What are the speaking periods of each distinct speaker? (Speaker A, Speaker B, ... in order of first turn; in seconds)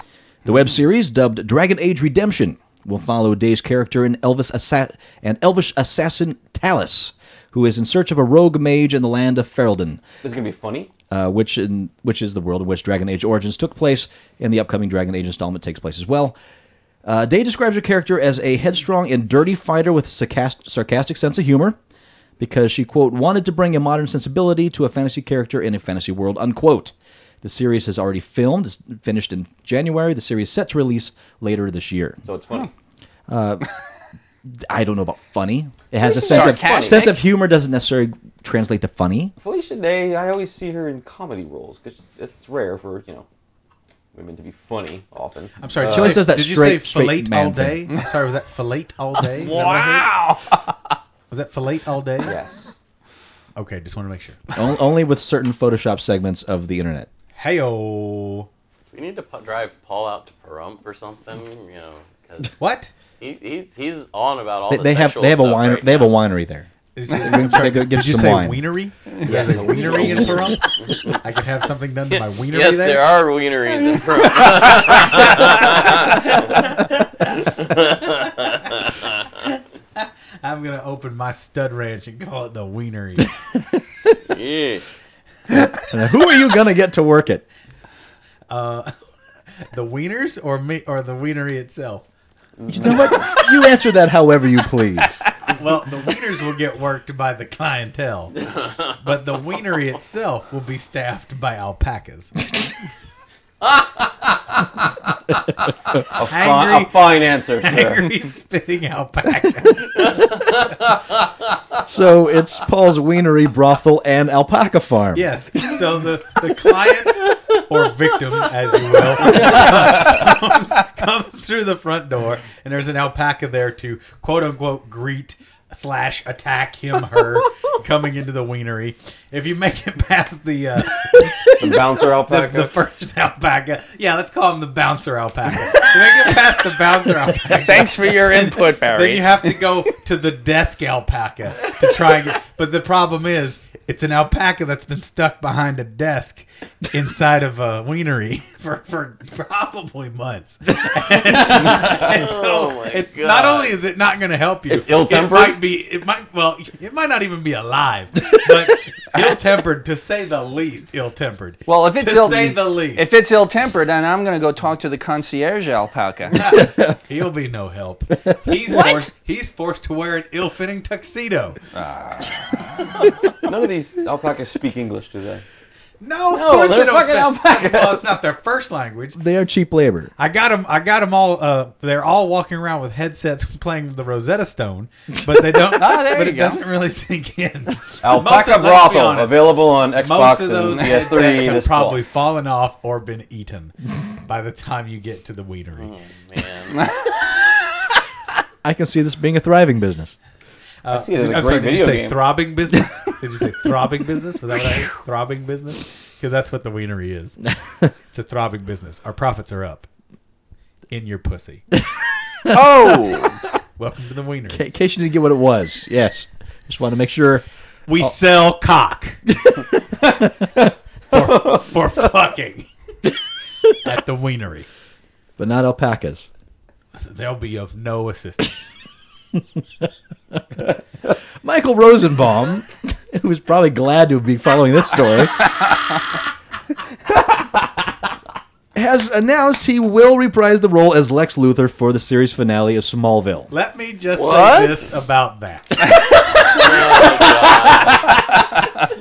Speaker A: 0.5-10.0, 11.1-16.4, 17.1-21.8, 22.4-32.2, 33.3-33.7, 34.5-39.3, 45.8-47.9, 54.5-57.1, 64.7-68.6, 69.2-70.5, 85.5-87.4, 92.7-95.2, 111.8-115.4, 179.1-180.1, 198.6-200.2, 212.4-213.1, 214.5-217.4, 219.4-220.1, 225.4-226.3, 231.4-235.4, 238.7-243.5
Speaker B: 10.2-10.9, 32.2-32.7, 36.0-37.1, 39.4-43.3, 44.1-46.3, 52.2-52.7, 69.3-70.6, 92.6-93.1, 106.1-108.1, 131.6-132.7, 154.7-155.6, 173.4-175.4, 176.3-178.2, 188.0-192.0, 200.9-202.3, 221.1-221.6, 246.6-248.2
Speaker C: 36.2-37.2, 49.4-50.7, 137.5-139.5, 161.7-166.4, 171.7-172.7, 185.7-186.6, 212.5-213.4
Speaker D: 45.6-50.1, 51.3-52.4, 53.6-54.5, 57.4-58.5, 62.6-62.9, 67.0-73.1, 74.9-77.9, 79.4-83.4, 88.5-88.9, 89.7-92.1, 95.5-102.3, 106.2-110.5, 115.1-163.1, 166.3-171.6, 176.0-179.2, 180.2-195.9, 200.8-207.5, 208.1-209.9, 210.9-211.6, 213.8-214.6, 217.9-219.2, 221.1-222.7, 223.8-224.7, 226.9-228.7, 243.5-247.9
Speaker E: 58.9-62.5, 63.2-66.1, 72.1-76.3, 77.7-78.6, 84.3-84.8, 151.6-153.8, 195.8-196.8, 244.1-244.9, 246.5-248.1